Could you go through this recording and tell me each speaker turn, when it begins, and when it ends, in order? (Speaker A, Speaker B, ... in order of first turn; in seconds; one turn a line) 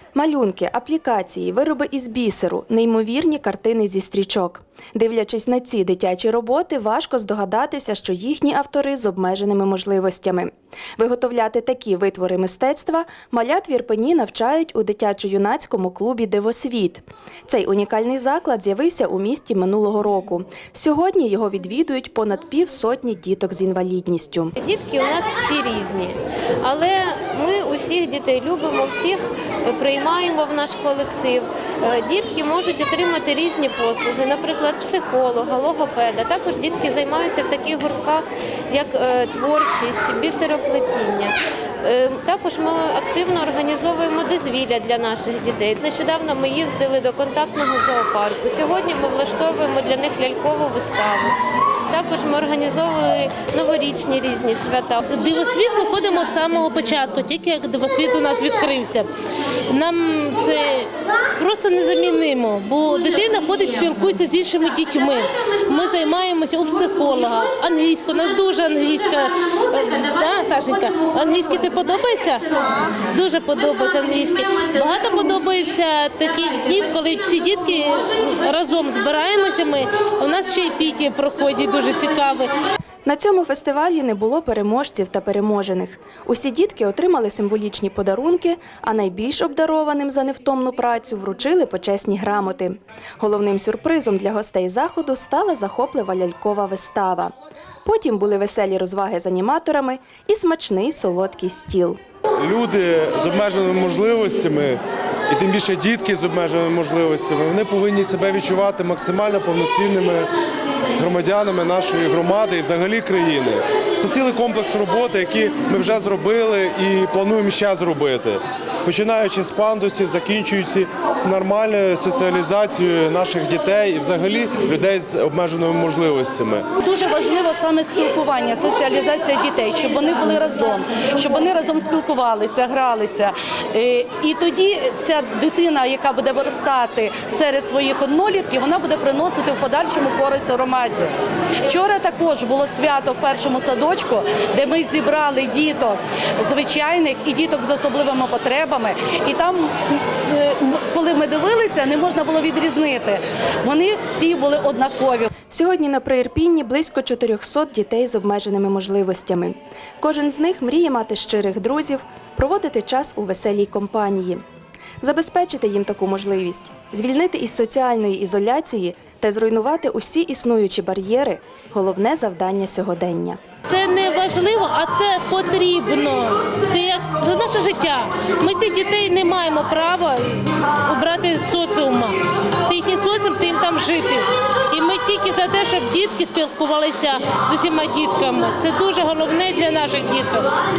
Speaker A: 0.1-24.5
Speaker B: 24.6-51.4
Speaker B: 51.9-55.0
Speaker C: 55.1-59.1
Speaker C: 59.7-82.5
Speaker A: 83.0-102.0
Speaker D: 102.4-110.3
Speaker D: 110.9-126.7
Speaker E: 126.8-141.1
Speaker E: 141.6-155.2
Speaker A: 155.5-164.4
Speaker A: 165.0-173.4
Speaker C: 173.7-190.5